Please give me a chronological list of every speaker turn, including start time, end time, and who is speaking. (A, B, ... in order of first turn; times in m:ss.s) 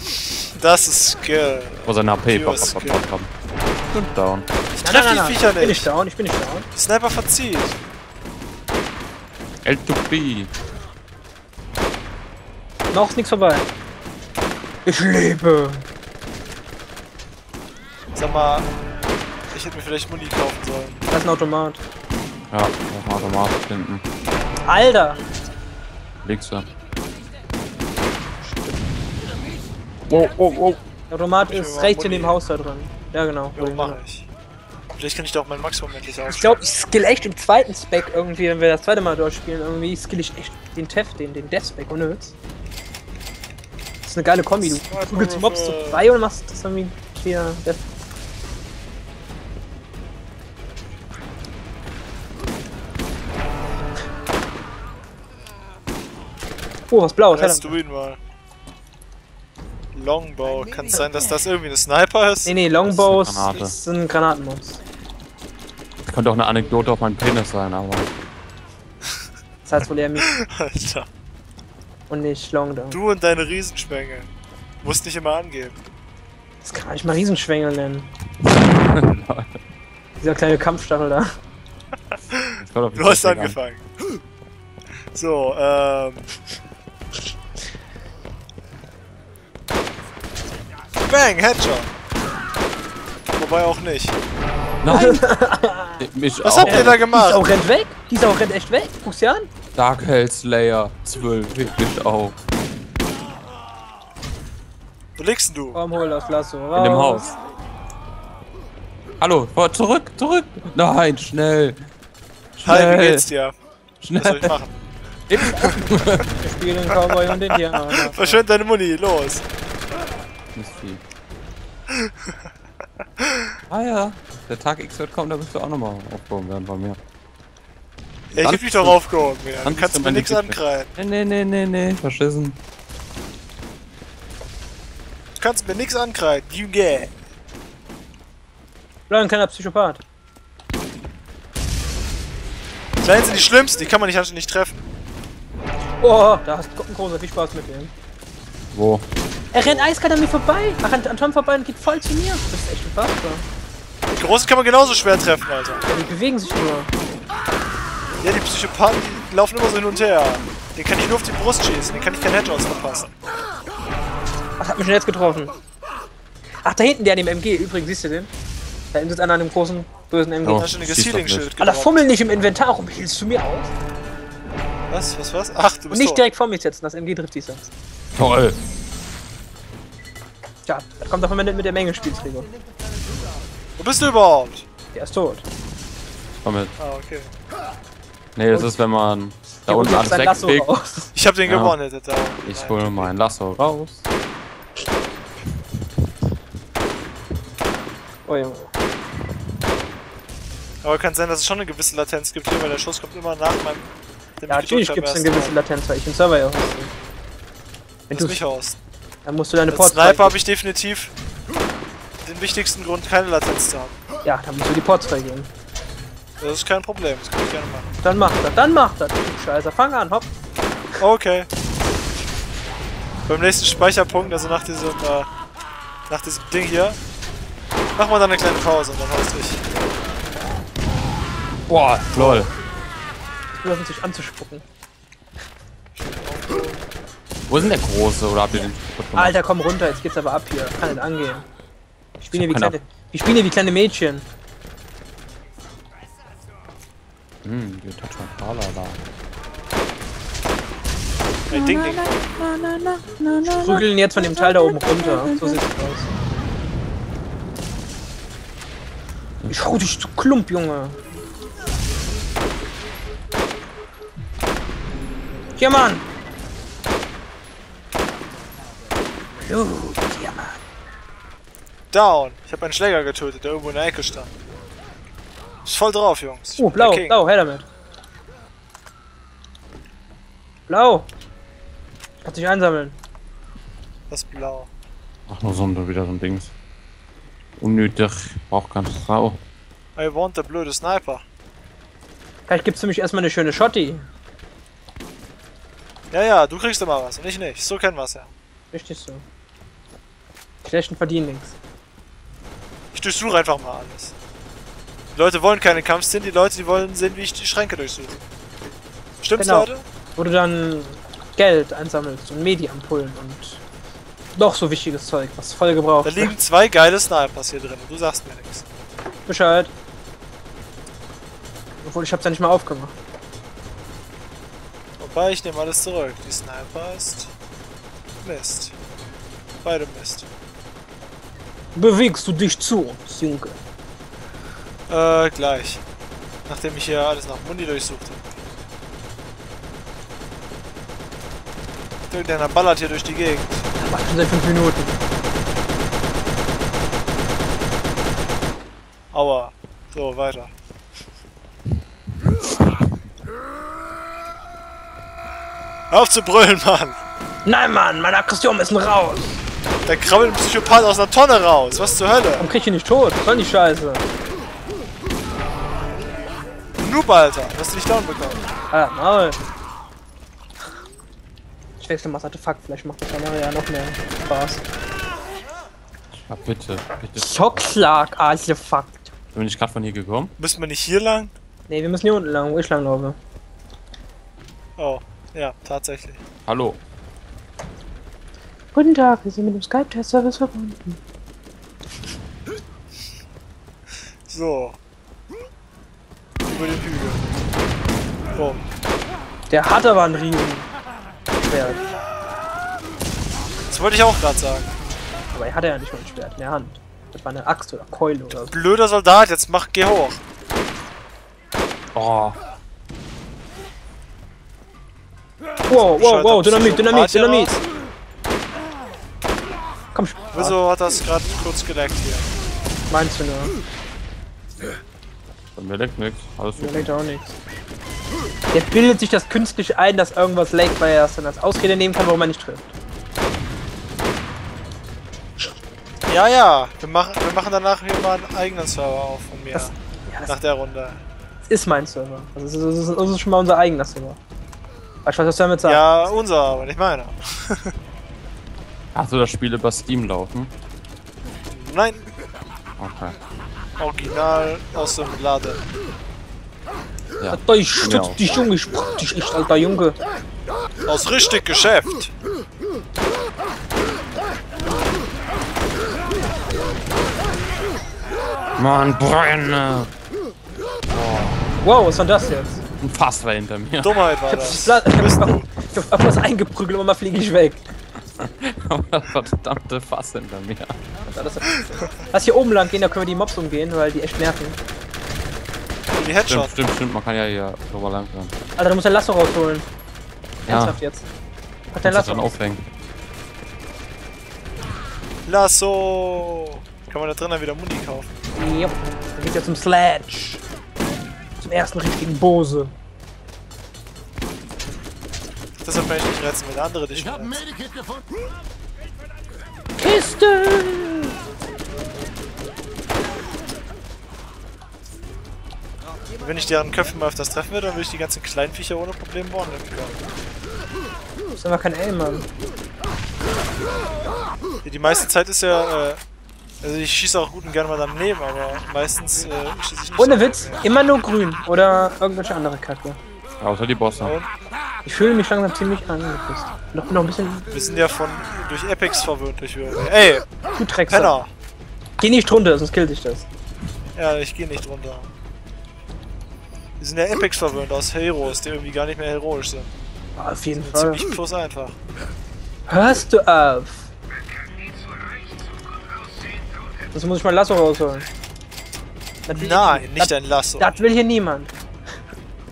0:00.5-0:03.0 A
0:01.8-0:03.3 B
0:04.0-0:04.4 B
0:04.7-0:05.9 A
0:04.8-0:06.7 C
0:06.7-0:07.8 A
0:09.6-0:10.5 B
0:12.9-0:13.7 C
0:14.8-0:15.8 C
0:18.1-0:18.7 A
0:19.5-0:21.1 A
0:21.1-0:21.8 C
0:22.5-0:24.0 B
0:24.6-0:25.2 C
0:26.2-0:26.6 B
0:30.1-0:30.8 B
0:31.1-0:34.0 C
0:31.5-0:32.4 A
0:33.5-0:34.3 A
0:35.0-0:36.6 A
0:36.3-0:42.4 C
0:44.0-0:47.8 C
0:44.6-0:46.0 A
0:56.9-0:57.8 C
0:57.3-0:58.2 A
0:59.9-1:02.5 A
1:02.4-1:04.8 C
1:02.8-1:03.7 B
1:06.0-1:08.1 B
1:09.6-1:10.3 C
1:10.2-1:11.1 A
1:12.1-1:13.0 C
1:12.9-1:14.3 A
1:14.8-1:15.8 A
1:16.6-1:18.1 C
1:18.4-1:19.6 B
1:20.2-1:21.3 C
1:22.3-1:23.8 A
1:22.6-1:23.6 B
1:25.1-1:26.4 A
1:31.0-1:31.9 A
1:33.4-1:34.2 A
1:34.8-1:35.2 B
1:34.9-1:36.0 C
1:36.0-1:37.0 B
1:36.4-1:37.4 A
1:36.6-1:39.5 C
1:39.7-1:42.4 B
1:45.2-1:45.8 A
1:45.7-1:47.3 C
1:46.7-1:47.3 B
1:49.2-1:51.8 B
1:52.6-1:53.2 B
1:52.6-1:53.5 A
1:54.0-1:54.5 B
1:54.2-1:54.7 A
1:55.3-1:56.3 B
1:56.4-1:58.4 C
1:56.9-1:59.4 A
2:00.5-2:01.0 B
2:01.9-2:02.3 A
2:03.2-2:03.5 A
2:03.7-2:07.0 B
2:08.3-2:10.9 A
2:08.4-2:09.0 B
2:09.6-2:12.6 B
2:15.4-2:17.1 A
2:19.1-2:20.0 C
2:23.0-2:24.8 A
2:26.0-2:27.9 C
2:28.7-2:29.0 B
2:29.5-2:33.4 C
2:34.1-2:35.8 A
2:35.9-2:36.9 C
2:38.2-2:43.1 A
2:44.6-2:45.5 C
2:46.6-2:48.3 C
2:48.9-2:50.7 C
2:50.4-2:51.5 B
2:50.5-2:52.1 A
2:51.6-2:53.7 C
2:54.9-2:56.2 A
2:55.9-2:57.7 C
2:58.2-2:58.6 B
3:00.6-3:02.5 C
3:03.8-3:04.6 A
3:04.9-3:05.4 C
3:06.4-3:06.7 B
3:06.8-3:07.3 A
3:08.4-3:10.8 B
3:08.5-3:08.8 C
3:09.7-3:11.1 C
3:11.1-3:13.1 A
3:11.4-3:11.8 B
3:12.4-3:14.0 B
3:18.3-3:18.7 C
3:20.8-3:25.6 A
3:24.5-3:26.9 C
3:28.1-3:28.4 C
3:28.1-3:28.8 A
3:29.2-3:30.4 C
3:29.7-3:31.1 A
3:32.2-3:34.0 A
3:34.2-3:35.5 C
3:36.4-3:37.9 A
3:38.0-3:40.3 C
3:41.0-3:41.5 A
3:43.3-3:45.3 A
3:46.1-3:47.0 A
3:48.0-3:49.6 A
3:51.7-3:52.5 B
3:52.1-3:52.5 A
3:53.6-3:54.6 C
3:55.9-3:56.8 A
3:57.5-3:59.4 B
3:58.5-4:01.5 C
4:02.2-4:04.2 C
4:02.3-4:02.8 B
4:07.4-4:09.0 B
4:11.5-4:12.3 A
4:11.5-4:15.6 B
4:13.4-4:16.1 C
4:19.4-4:19.8 B
4:19.5-4:21.0 C
4:25.6-4:26.0 C
4:29.4-4:30.6 C
4:31.9-4:34.3 A
4:35.6-4:37.2 A
4:36.6-4:37.7 C
4:40.7-4:41.1 C
4:42.2-4:43.0 C
4:44.1-4:44.7 A
4:45.3-4:46.5 B
4:47.6-4:49.4 B
4:50.0-4:51.2 A
4:52.5-4:54.0 C
4:56.1-4:58.3 A
4:58.7-4:59.2 C
5:00.6-5:01.5 C
5:02.9-5:04.1 A
5:05.1-5:08.2 A
5:09.2-5:09.8 A
5:09.4-5:13.6 C
5:14.3-5:16.3 C
5:16.0-5:18.7 A
5:19.3-5:19.7 C
5:21.8-5:23.0 C
5:25.0-5:27.3 A
5:28.2-5:28.7 A
5:29.6-5:30.3 A
5:31.7-5:33.6 C
5:34.9-5:35.8 A
5:36.5-5:38.3 A
5:42.1-5:43.7 A
5:43.8-5:45.0 C
5:49.1-5:50.5 A
5:55.9-5:57.0 A
5:57.4-5:59.4 C
5:59.8-6:02.5 A
6:02.4-6:04.0 C
6:06.8-6:08.4 A
6:08.7-6:09.4 C
6:11.8-6:14.6 C
6:16.1-6:17.7 B
6:17.2-6:19.1 C
6:19.3-6:20.3 B
6:20.4-6:21.3 A
6:21.7-6:23.2 C
6:24.8-6:26.2 A
6:26.4-6:26.8 B
6:28.7-6:31.0 C
6:34.3-6:34.8 A
6:36.4-6:37.2 A
6:38.3-6:38.6 A
6:39.5-6:40.7 C
6:41.4-6:41.8 C
6:43.7-6:44.7 A
6:45.3-6:48.6 C
6:48.5-6:50.2 A
6:51.9-6:52.4 B
6:55.7-6:57.5 C
6:55.7-6:57.6 A
6:59.9-7:00.6 C
7:00.3-7:02.3 A
7:02.9-7:03.5 C
7:05.6-7:06.9 B
7:06.6-7:07.4 C
7:08.5-7:12.7 C
7:16.1-7:19.7 A
7:19.5-7:20.3 C
7:20.3-7:21.0 A
7:21.5-7:24.2 C
7:25.0-7:25.8 C
7:25.6-7:27.7 A
7:28.9-7:30.5 B
7:31.5-7:32.0 A
7:32.8-7:33.2 B
7:33.8-7:35.6 A
7:37.2-7:38.2 B
7:37.3-7:40.0 C
7:40.8-7:42.1 A
7:48.6-7:49.9 B
7:50.9-7:51.4 B
7:51.6-7:52.6 C
7:52.8-7:54.0 B
7:53.8-7:55.5 A
7:54.3-7:57.6 C
7:58.1-8:01.0 B
8:01.1-8:04.6 C
8:05.9-8:06.5 A
8:06.2-8:08.3 B
8:08.6-8:09.7 C
8:10.4-8:11.0 C
8:10.5-8:10.8 B
8:11.7-8:12.4 C
8:11.8-8:12.6 B
8:15.2-8:18.1 A
8:18.3-8:20.4 C
8:21.4-8:22.7 C
8:25.6-8:27.4 A
8:29.8-8:31.1 C
8:36.2-8:40.0 A
8:41.3-8:42.3 C
8:44.6-8:46.0 A
8:46.6-8:50.7 A
8:50.0-8:53.0 C
8:53.4-8:54.1 B
8:54.0-8:54.3 A
8:54.8-8:57.5 C
8:57.5-9:00.2 A
9:00.6-9:01.2 C
9:00.9-9:01.3 A
9:02.0-9:03.3 C
9:04.0-9:05.1 A
9:06.8-9:09.7 A
9:10.2-9:11.0 C
9:10.6-9:11.8 A
9:12.7-9:13.9 C
9:16.9-9:18.1 C
9:19.2-9:21.5 C
9:19.4-9:20.7 A